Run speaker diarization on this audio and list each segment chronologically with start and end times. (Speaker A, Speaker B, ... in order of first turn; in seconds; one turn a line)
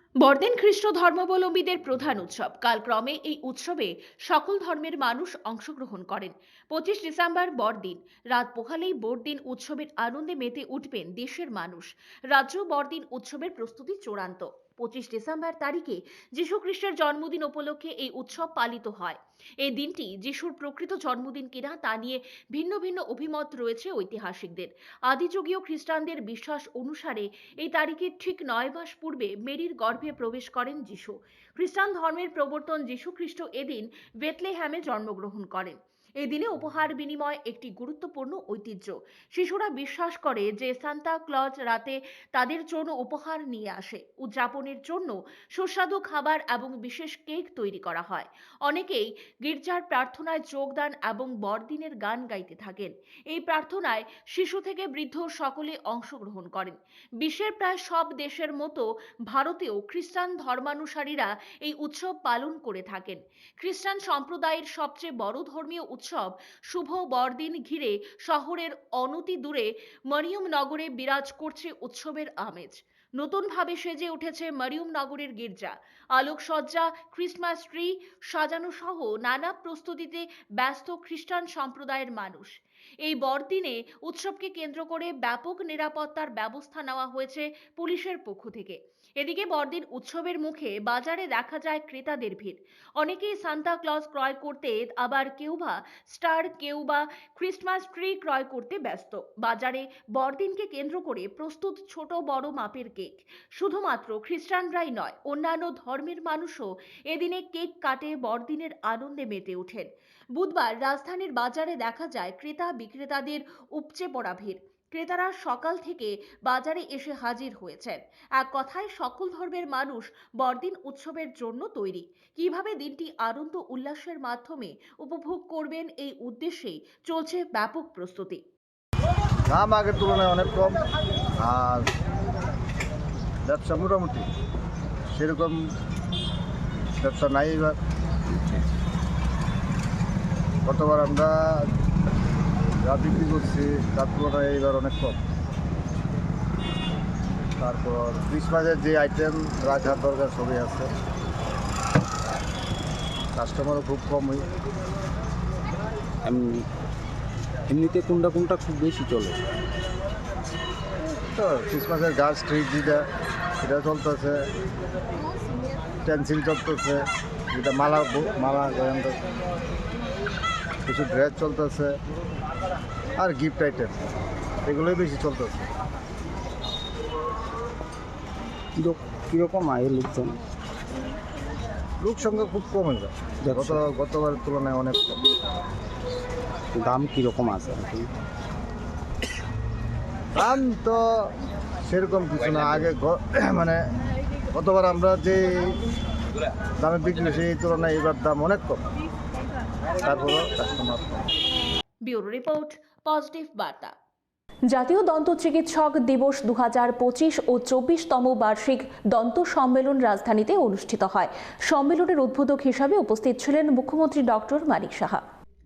Speaker A: 0.2-128.4
Speaker B: 129.5-130.8
Speaker B: 131.4-131.9
Speaker B: 133.4-134.3
Speaker B: 135.1-135.6
Speaker B: 137.0-137.8
Speaker B: 140.6-141.7
Speaker B: 142.8-145.2
Speaker B: 147.6-150.9
Speaker B: 153.3-154.4
Speaker C: 156.2-156.7
Speaker C: 157.7-159.4
Speaker B: 161.1-163.1
Speaker B: 163.6-164.4
Speaker B: 166.0-169.2
Speaker B: 170.8-172.0
Speaker B: 173.2-174.0
Speaker B: 174.7-175.7
Speaker C: 178.8-180.4
Speaker B: 182.0-185.2
Speaker C: 183.4-183.9
Speaker C: 186.7-188.1
Speaker B: 190.4-191.3
Speaker B: 191.8-193.8
Speaker B: 194.5-195.8
Speaker B: 196.8-198.8
Speaker B: 200.0-201.2
Speaker A: 202.0-203.9
Speaker D: 204.7-215.2